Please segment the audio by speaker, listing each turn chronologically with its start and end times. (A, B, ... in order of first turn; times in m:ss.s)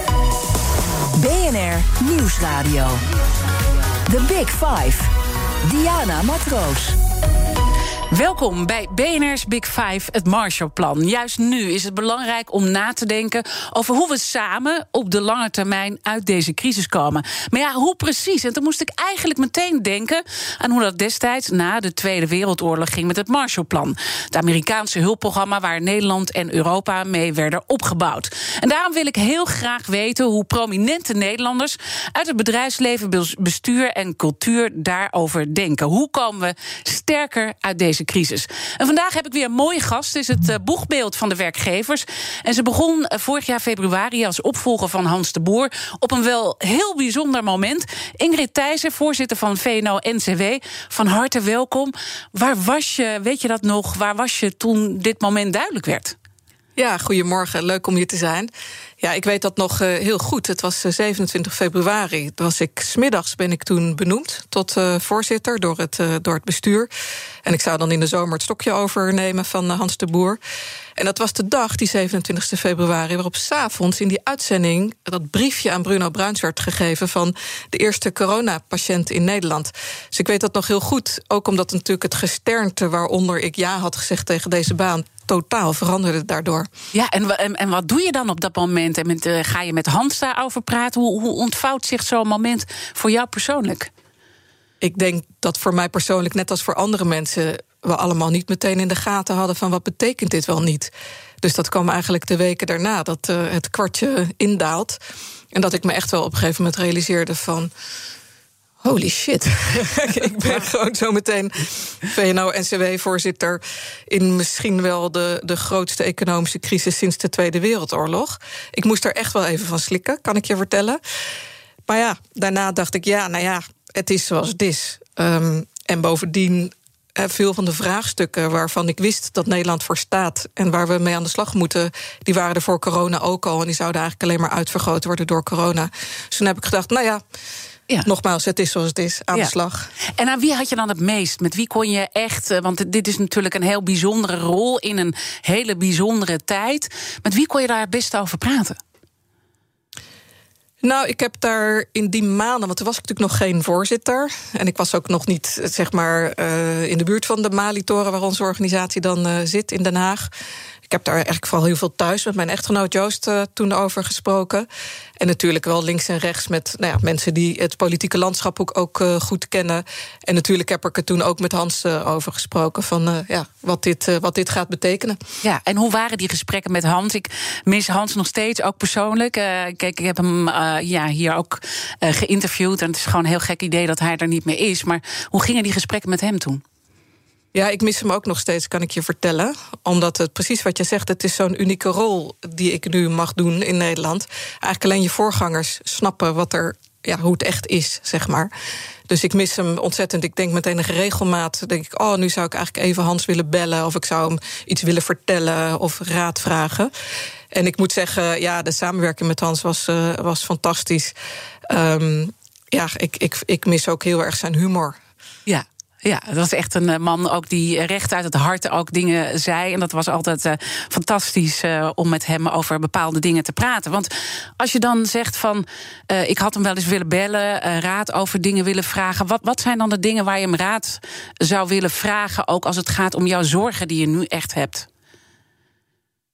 0:01.1-0:03.0 A
0:04.0-0:07.0 A
0:08.1-0:56.2 B
0:56.8-1:06.9 C
1:07.4-1:10.4 C
1:11.0-1:26.7 C
1:26.9-1:33.9 B
1:34.8-1:45.0 C
1:45.5-1:47.7 C
1:48.8-2:01.0 C
2:01.9-2:17.2 C
2:18.0-2:19.9 C
2:20.2-2:28.8 B
2:30.8-2:40.3 C
2:40.9-2:44.7 C
2:45.2-2:55.2 C
2:55.4-3:06.6 B
3:07.5-3:18.5 C
3:19.1-3:26.9 C
3:27.5-3:31.1 C
3:31.7-3:35.0 C
3:35.5-3:54.9 B